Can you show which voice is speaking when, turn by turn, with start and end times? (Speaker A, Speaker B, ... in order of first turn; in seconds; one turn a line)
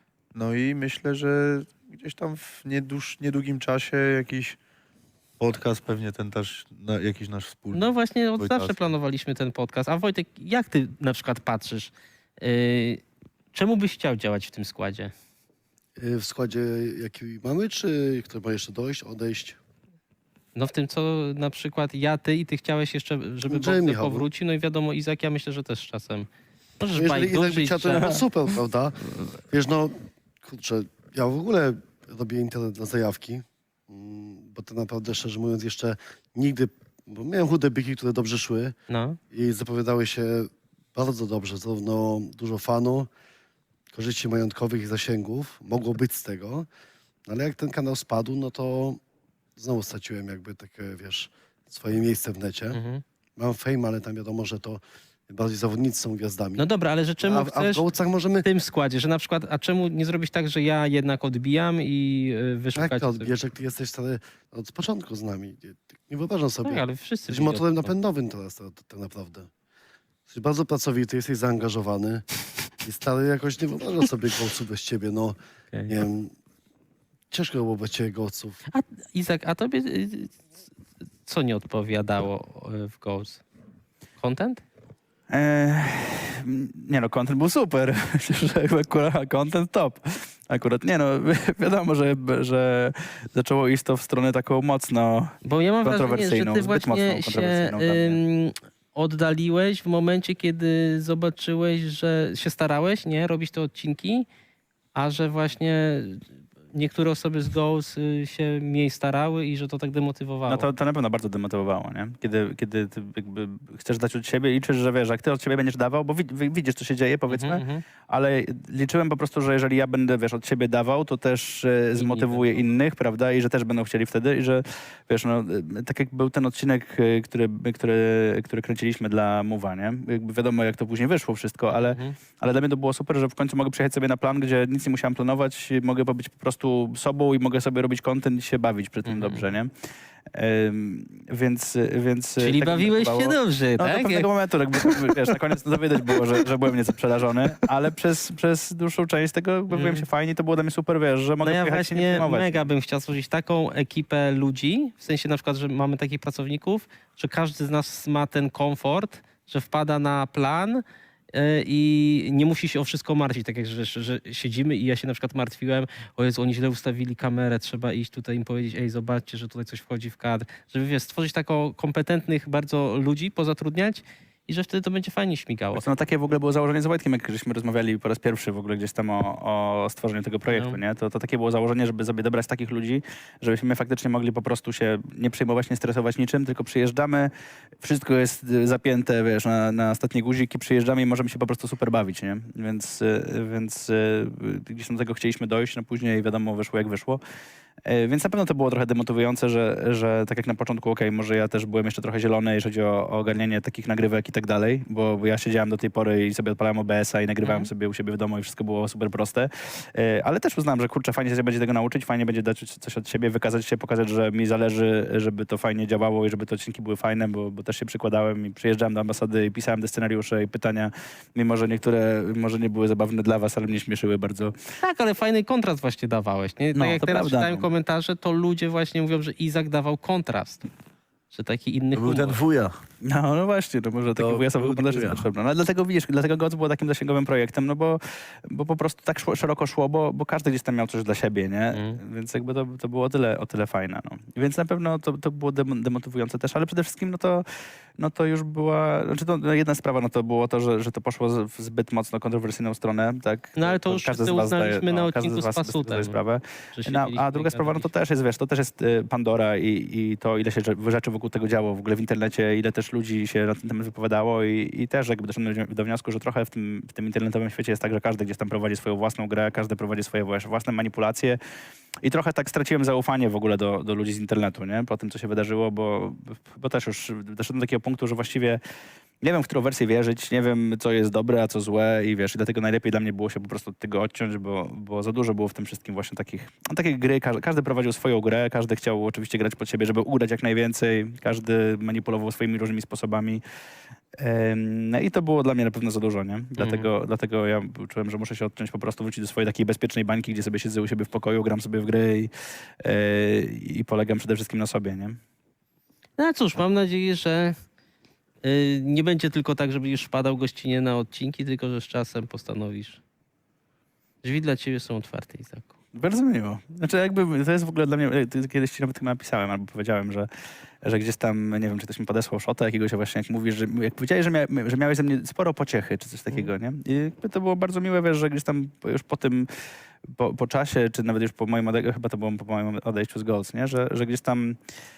Speaker A: 0.3-4.6
Speaker A: 5.4-8.8
Speaker B: 7.7-13.0
Speaker B: 13.5-15.1
Speaker C: 16.0-19.6
Speaker B: 20.5-26.3
Speaker C: 23.4-24.3
Speaker B: 26.8-28.2
Speaker C: 26.9-38.7
Speaker B: 38.9-39.2
Speaker C: 39.3-43.1
Speaker C: 43.9-46.7
Speaker C: 47.3-49.0
Speaker C: 49.6-52.8
Speaker B: 52.7-53.0
Speaker C: 53.4-56.6
Speaker B: 56.6-57.9
Speaker C: 57.2-58.5
Speaker B: 58.4-63.3
Speaker C: 62.7-69.5
Speaker B: 66.6-67.9
Speaker C: 70.3-72.2
Speaker C: 72.8-75.4
Speaker C: 75.9-76.3
Speaker C: 77.3-78.6
Speaker B: 78.7-80.3
Speaker B: 81.2-83.4
Speaker B: 84.2-84.6
Speaker D: 85.3-98.2
Speaker B: 95.4-104.3
Speaker B: 104.9-110.7
Speaker D: 110.5-139.7
Speaker B: 117.3-117.8
Speaker B: 122.0-122.6
Speaker B: 131.7-132.2
Speaker B: 139.0-139.5
Speaker D: 140.3-152.7
Speaker B: 142.4-144.3
Speaker B: 144.8-145.1
Speaker B: 149.7-150.1
Speaker B: 151.4-175.9
Speaker D: 175.7-197.2
Speaker B: 180.5-180.8
Speaker D: 197.8-224.5
Speaker B: 207.4-207.7
Speaker B: 224.8-230.7
Speaker D: 226.7-227.7
Speaker B: 231.3-232.4
Speaker A: 231.9-232.7
Speaker D: 233.0-247.4
Speaker A: 234.2-235.2
Speaker B: 241.7-242.0
Speaker D: 248.0-271.4
Speaker B: 253.6-256.2
Speaker B: 256.7-257.9
Speaker D: 272.0-278.6
Speaker D: 279.2-293.4
Speaker D: 294.2-302.3
Speaker B: 296.6-296.9
Speaker D: 302.8-305.2
Speaker B: 306.2-307.5
Speaker B: 308.4-313.0
Speaker B: 314.2-315.7
Speaker D: 315.9-320.3
Speaker D: 320.8-329.5
Speaker D: 330.1-334.6